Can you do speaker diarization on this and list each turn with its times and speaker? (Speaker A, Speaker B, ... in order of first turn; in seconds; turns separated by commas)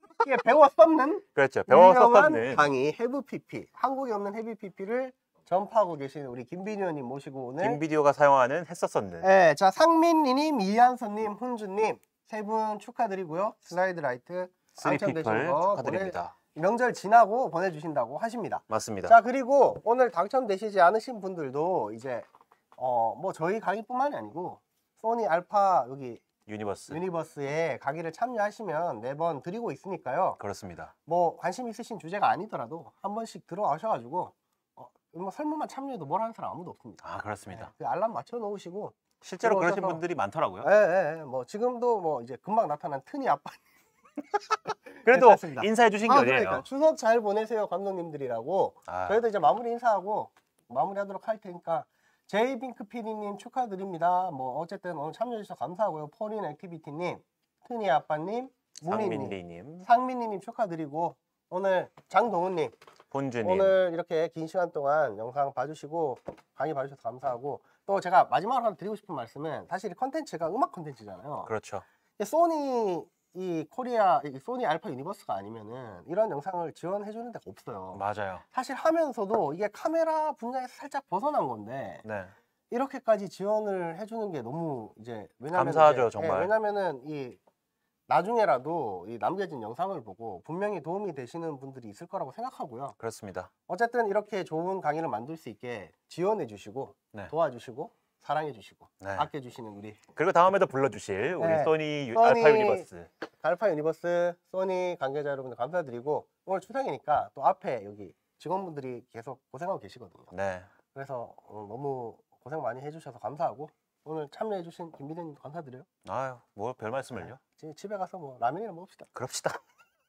Speaker A: 0.2-7.8, Speaker B: 1.4-2.7, Speaker B: 7.6-9.3, Speaker A: 9.2-26.2, Speaker B: 14.8-16.3, Speaker B: 18.7-19.1, Speaker B: 26.5-27.0, Speaker A: 26.9-30.4, Speaker B: 30.4-30.9, Speaker A: 31.1-40.0, Speaker B: 37.0-37.7, Speaker B: 39.2-40.7, Speaker A: 40.6-43.7, Speaker A: 44.9-62.7, Speaker B: 45.0-46.6, Speaker B: 48.9-49.2, Speaker B: 58.9-59.9, Speaker B: 63.1-63.8, Speaker A: 63.4-71.5, Speaker B: 71.5-71.8, Speaker A: 72.2-82.0, Speaker B: 77.9-78.4, Speaker B: 82.0-82.3, Speaker A: 82.7-87.4, Speaker B: 85.5-86.5, Speaker A: 88.1-93.0, Speaker B: 93.0-93.5, Speaker A: 93.7-100.0, Speaker B: 99.0-99.3, Speaker B: 100.2-103.1, Speaker A: 101.4-102.9, Speaker A: 103.4-110.3, Speaker B: 110.3-110.7, Speaker A: 110.9-115.8, Speaker B: 116.0-117.4, Speaker A: 117.2-119.1, Speaker B: 119.1-119.6